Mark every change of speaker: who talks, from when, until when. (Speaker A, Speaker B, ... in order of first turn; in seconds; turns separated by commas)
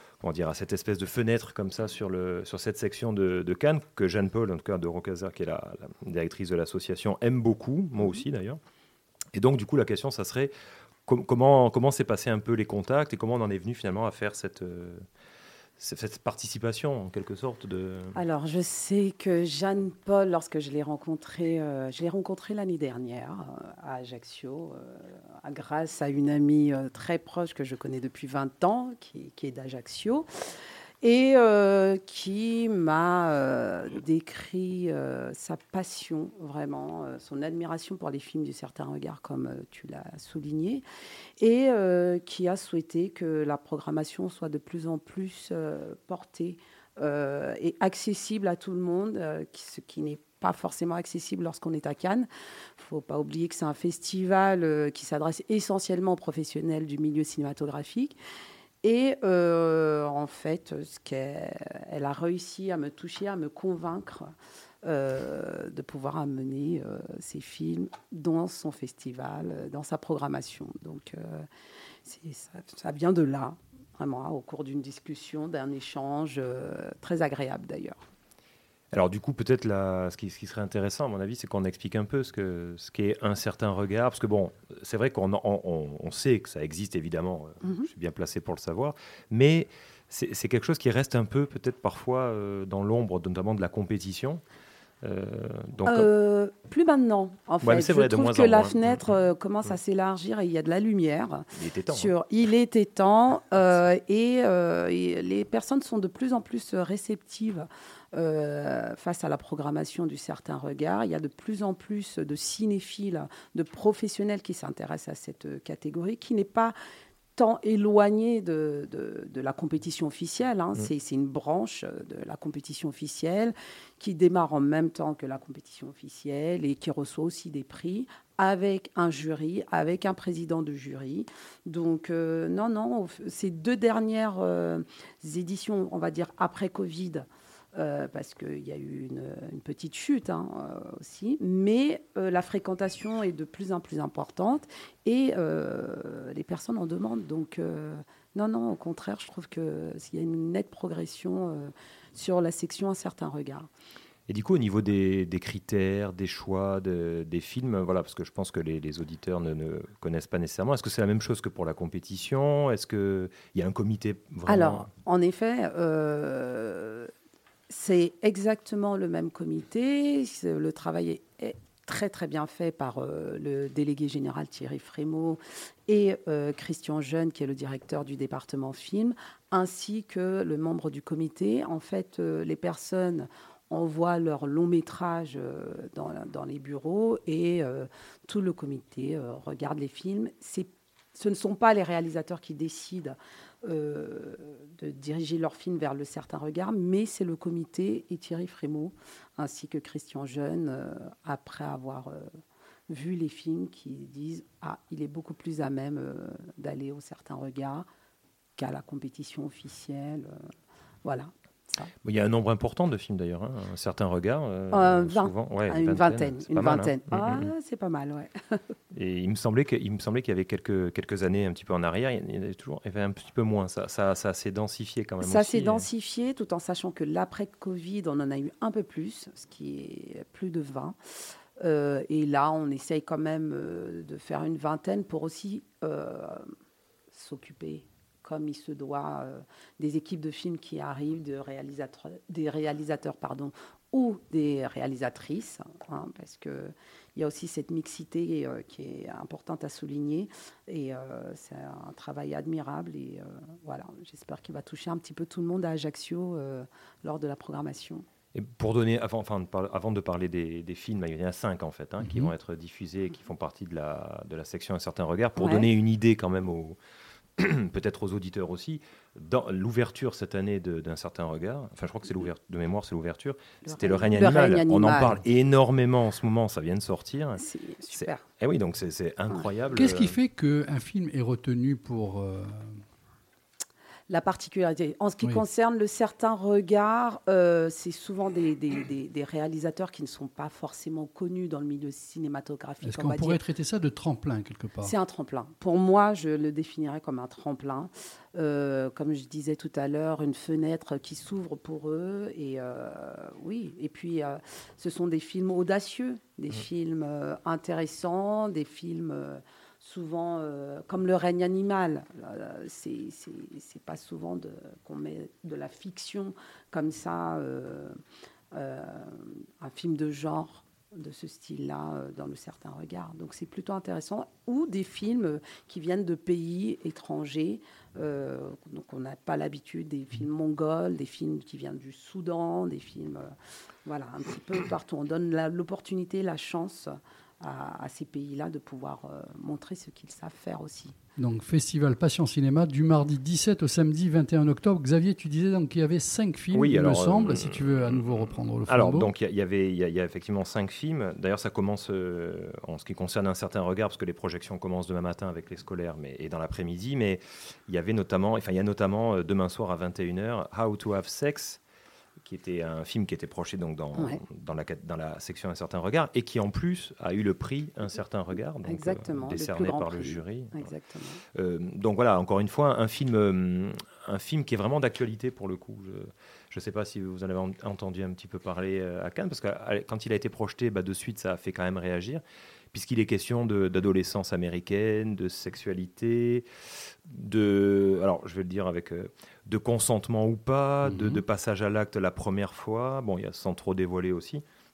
Speaker A: 0.2-8.6, Speaker A: 9.3-10.5, Speaker A: 11.1-15.1, Speaker A: 15.8-18.2, Speaker B: 18.1-30.3, Speaker B: 31.0-40.8, Speaker B: 41.4-58.1, Speaker B: 58.8-64.3, Speaker B: 64.8-71.5, Speaker B: 72.0-78.0, Speaker A: 78.9-94.4, Speaker A: 95.0-96.1, Speaker B: 95.8-116.7, Speaker A: 97.6-99.1, Speaker A: 101.5-102.1, Speaker B: 117.3-153.7, Speaker A: 154.3-164.9, Speaker B: 164.5-167.1, Speaker B: 167.7-202.3, Speaker B: 202.9-207.8, Speaker B: 208.6-210.4, Speaker B: 211.0-211.9, Speaker A: 212.0-217.5, Speaker B: 214.7-218.6, Speaker A: 218.9-225.9, Speaker B: 225.2-230.9, Speaker B: 231.6-236.5, Speaker B: 237.1-258.0, Speaker A: 258.3-266.8, Speaker B: 265.4-265.6, Speaker A: 267.4-280.1, Speaker B: 273.6-275.2, Speaker B: 277.4-278.2, Speaker C: 279.7-282.8, Speaker B: 284.1-293.4, Speaker C: 292.8-294.9, Speaker B: 294.8-318.0, Speaker B: 318.5-333.3, Speaker B: 333.8-340.9, Speaker C: 341.2-349.1, Speaker A: 346.5-361.6, Speaker A: 362.2-370.7, Speaker B: 368.6-371.2, Speaker A: 371.3-386.4, Speaker A: 387.0-394.4